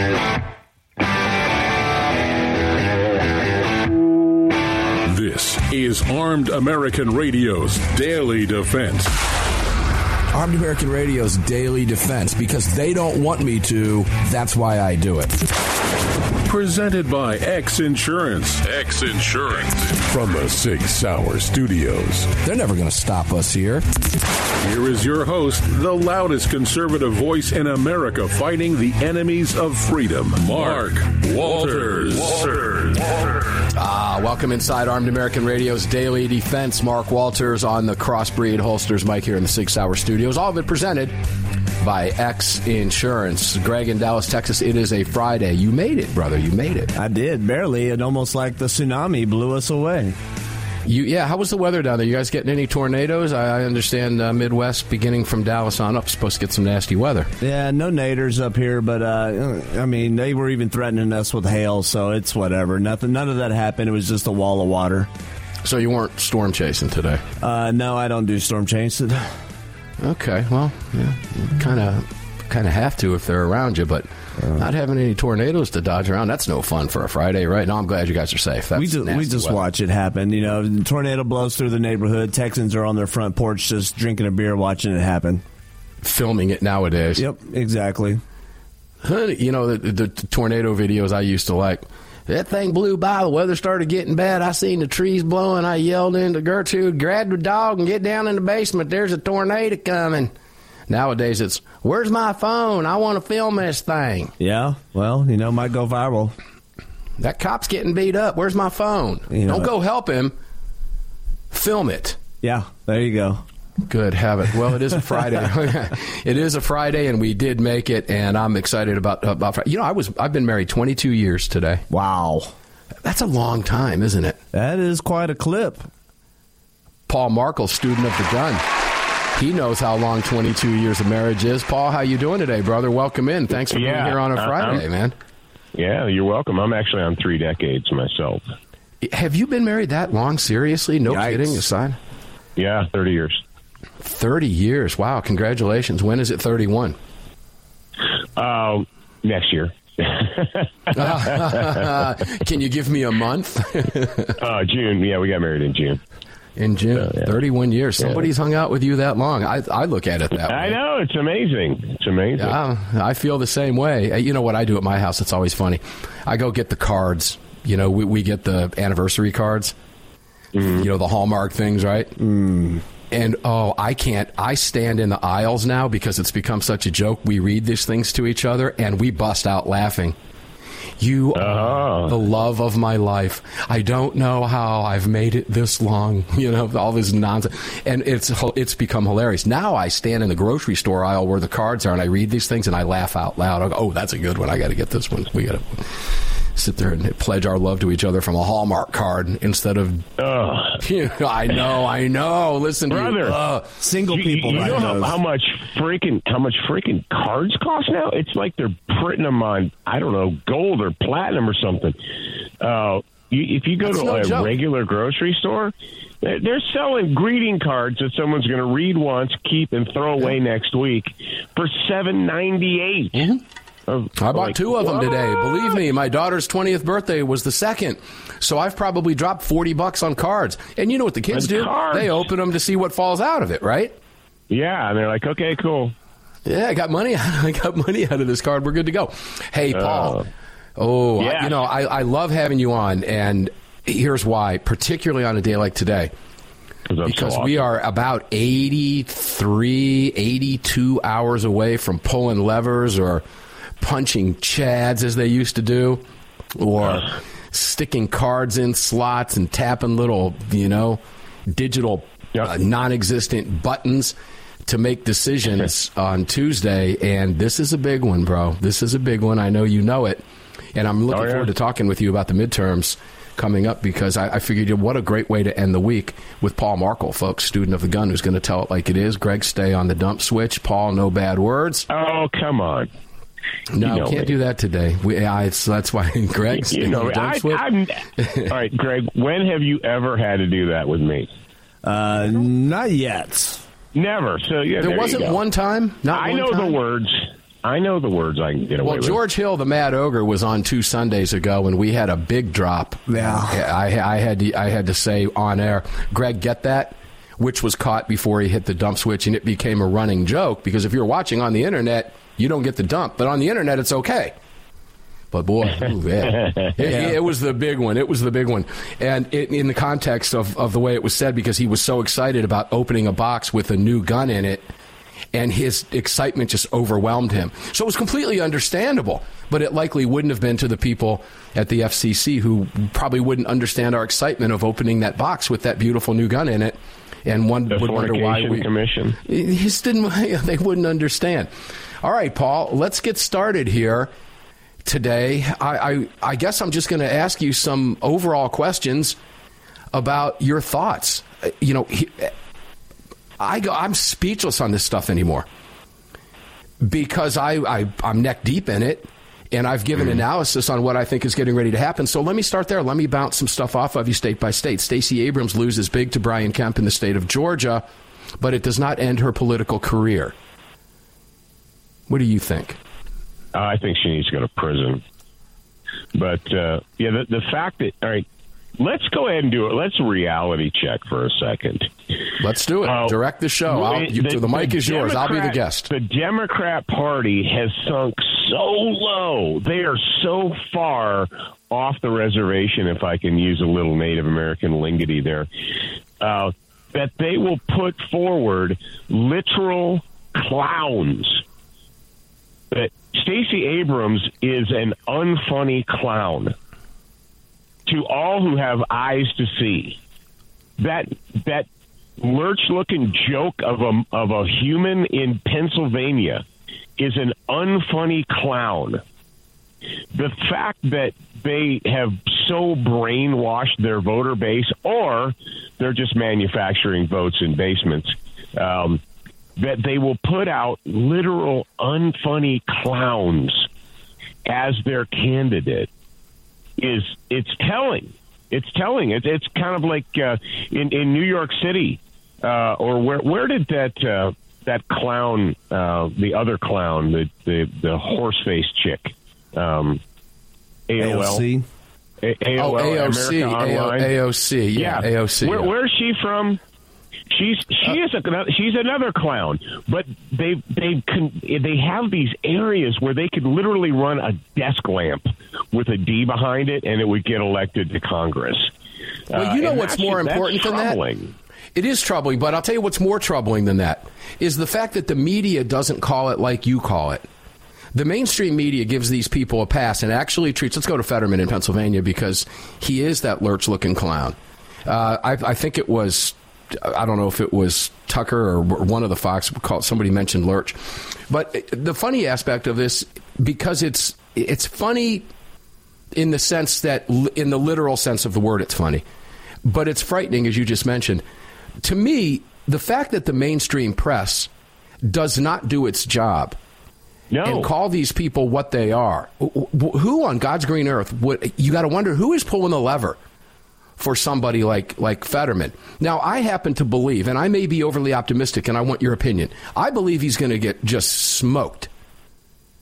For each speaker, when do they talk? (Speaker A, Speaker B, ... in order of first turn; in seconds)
Speaker A: 5.0-9.1, 16.4-22.3, 24.6-33.1
Speaker B: 10.3-15.4, 22.4-23.8, 33.7-41.2, 41.8-46.9, 50.9-57.3, 65.6-67.2, 70.0-79.6, 86.0-87.2, 89.0-100.3, 100.9-104.3, 107.2-110.3, 111.5-112.2, 113.8-121.8, 123.0-124.4, 127.1-128.6, 129.3-135.2, 139.0-142.0, 144.0-147.0, 150.9-154.4, 156.6-160.8, 162.4-169.7, 170.6-172.1, 173.1-180.2, 181.0-200.1, 200.8-203.7, 213.8-214.5, 223.1-223.4, 224.2-233.9, 236.4-240.2, 240.8-246.1, 247.0-253.2, 253.8-256.0, 256.6-270.2, 270.7-281.9, 283.7-287.6, 288.2-288.5, 294.8-296.8, 298.8-314.3, 315.3-324.7, 325.3-338.7, 339.2-344.1, 344.8-349.2, 349.9-352.3, 353.4-355.4, 356.8-367.8, 368.4-370.3, 372.1-372.8, 382.4-385.9, 452.6-455.7, 469.3-471.0, 471.7-477.2, 477.9-495.3, 496.1-499.0, 499.6-501.2, 501.8-504.5, 505.0-506.6, 507.4-513.2, 514.0-521.9
Speaker C: 46.9-50.2, 57.4-65.1, 67.4-69.3, 74.4-74.6, 78.7-85.4, 87.2-88.2, 104.4-106.3, 109.3-109.7, 112.4-113.4, 121.9-122.5, 124.5-125.9, 141.1-141.6, 172.2-172.8, 203.8-205.2, 291.8-293.6, 303.1-303.6, 316.9-317.1, 451.0-451.6
Speaker D: 133.7-134.8, 135.7-138.4, 142.6-143.4, 148.4-151.8, 154.4-156.0, 157.0-157.3, 160.4-162.6, 170.5-170.8, 181.3-182.1, 200.2-200.8, 202.9-203.4, 204.1-212.0, 212.6-223.2, 223.9-225.1, 231.3-232.2, 234.5-235.9, 239.7-240.3, 241.2-241.6, 246.9-247.6, 271.1-271.5, 281.9-282.9, 283.8-284.3, 286.5-291.3, 293.9-295.4, 296.1-299.2, 316.3-316.7, 337.7-339.2, 373.5-375.0, 376.1-378.2, 378.8-381.9, 382.8-395.5, 396.2-401.4, 402.7-406.5, 407.9-410.0, 410.8-411.7, 412.2-416.4, 417.0-419.0, 420.1-429.0, 429.6-433.7, 434.4-435.9, 436.8-450.0, 450.9-451.4, 452.2-454.1, 454.7-456.6, 457.3-468.7, 469.3-471.3, 507.3-507.7